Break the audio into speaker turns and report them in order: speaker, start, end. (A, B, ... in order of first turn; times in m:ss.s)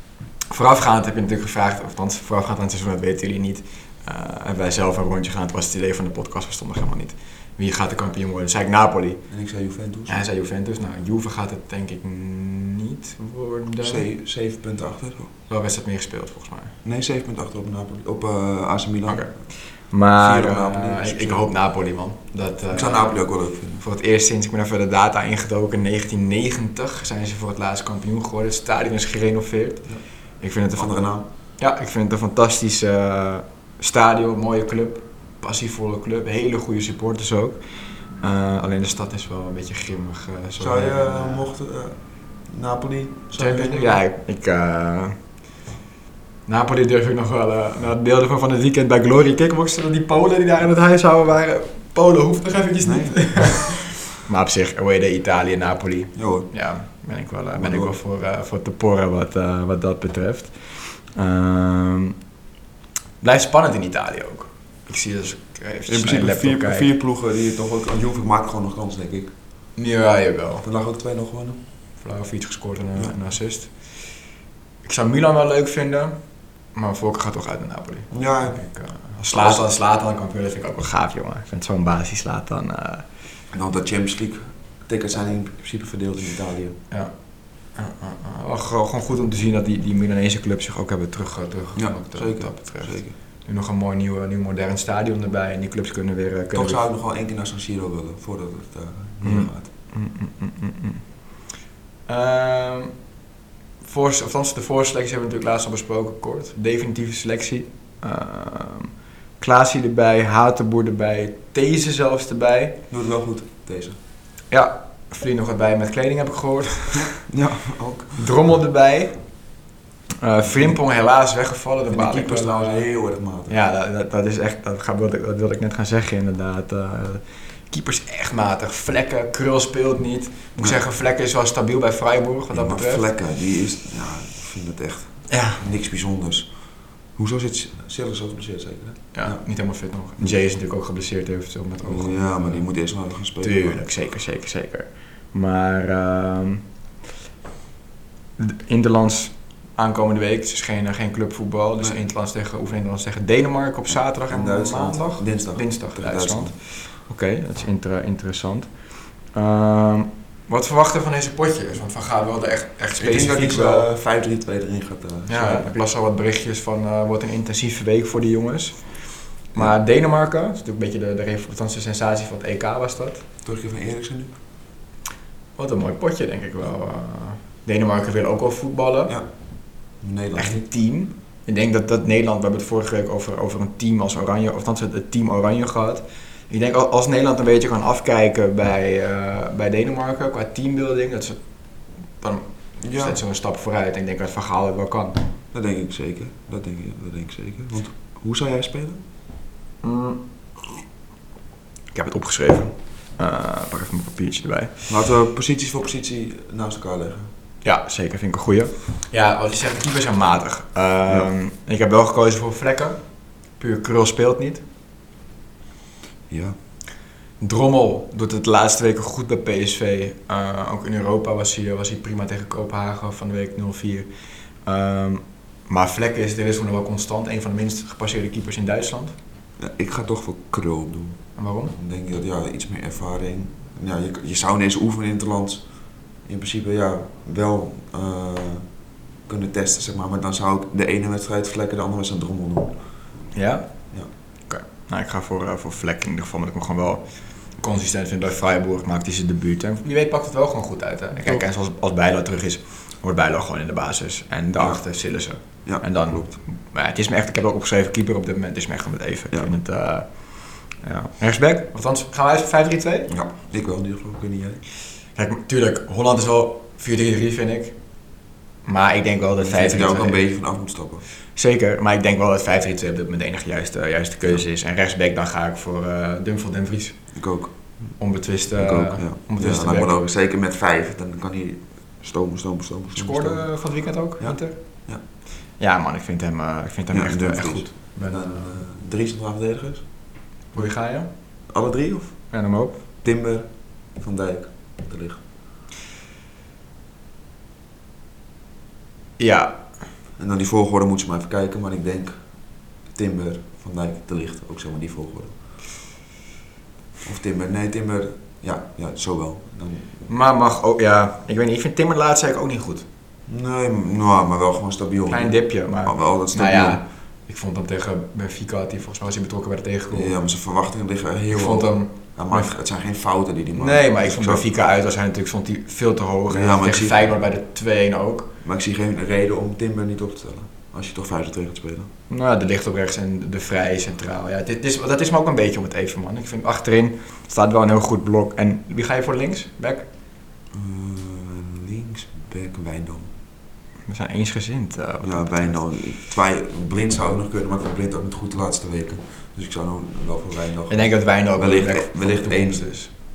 0:00.5-0:09.2 A
0:09.3-0:10.2 B
0:10.1-0:14.0 A
0:13.8-0:15.3 B
0:15.5-0:16.8 A
0:16.8-0:19.4 B
0:19.1-0:23.2 A
0:20.2-0:21.5 B
0:22.7-0:23.8 B
0:23.8-0:37.6 A
0:30.8-0:31.3 B
0:38.2-0:41.5 A
0:40.6-0:44.0 B
0:43.4-0:45.2 A
0:46.5-1:02.2 A
0:52.8-0:53.8 B
0:56.2-0:56.5 B
0:57.5-0:58.0 B
1:03.2-1:06.9 A
1:05.9-1:09.3 B
1:09.8-1:10.6 A
1:10.6-1:11.6 B
1:12.0-1:13.9 A
1:14.8-1:16.2 A
1:16.7-1:23.1 A
1:18.1-1:18.7 B
1:19.3-1:19.6 B
1:23.5-1:26.8 B
1:27.7-1:36.8 A
1:31.8-1:33.2 B
1:36.5-1:39.7 B
1:39.2-1:41.0 A
1:42.1-1:42.9 A
1:43.8-1:52.8 A
1:52.9-1:54.0 B
1:54.5-1:57.2 A
1:56.9-1:58.2 B
1:58.2-1:59.2 A
2:00.2-2:02.8 A
2:00.5-2:00.8 B
2:01.9-2:03.6 B
2:03.5-2:13.0 A
2:12.5-2:16.5 B
2:15.3-2:15.6 A
2:17.2-2:19.4 B
2:19.1-2:22.7 A
2:21.8-2:23.8 B
2:23.4-2:26.6 A
2:28.4-2:43.9 A
2:34.3-2:36.6 B
2:43.0-2:45.7 B
2:45.3-2:53.3 A
2:53.4-2:54.3 B
2:55.6-2:59.2 A
3:00.0-3:00.6 B
3:00.4-3:11.4 A
3:12.2-3:15.2 A
3:12.8-3:13.2 B
3:15.5-3:19.0 B
3:19.8-3:20.2 A
3:21.9-3:24.8 A
3:24.9-3:27.3 B
3:27.6-3:33.0 A
3:33.6-3:34.6 A
3:36.3-3:36.6 B
3:37.4-3:44.1 A
3:44.6-3:49.2 A
3:49.6-3:55.7 B
3:51.4-3:51.8 A
3:56.2-3:58.6 B
3:59.3-4:02.8 B
4:03.3-4:03.8 A
4:04.5-4:23.1 A
4:15.6-4:16.4 B
4:23.1-4:24.6 B
4:25.2-4:27.8 A
4:28.6-4:30.2 A
4:29.4-4:31.0 B
4:31.4-4:37.1 A
4:37.2-4:38.0 B
4:38.0-4:40.0 A
4:38.6-4:43.5 B
4:42.9-4:44.6 A
4:44.2-4:45.0 B
4:45.6-4:48.5 A
4:46.9-4:49.9 B
4:50.5-4:51.1 A
4:51.5-4:52.2 B
4:52.3-4:52.8 A
4:53.0-4:55.2 B
4:59.2-4:59.6 A
5:00.2-5:02.2 B
5:02.9-5:05.4 B
5:07.0-5:10.0 B
5:10.1-5:12.9 A
5:13.3-5:16.8 B
5:15.1-5:20.1 A
5:19.9-5:24.4 B
5:21.3-5:22.6 A
5:23.5-5:28.3 A
5:26.3-5:27.1 B
5:28.4-5:31.9 B
5:32.1-5:39.9 A
5:40.5-5:43.1 B
5:43.9-5:45.6 A
5:45.0-5:52.7 B
5:50.7-5:52.9 A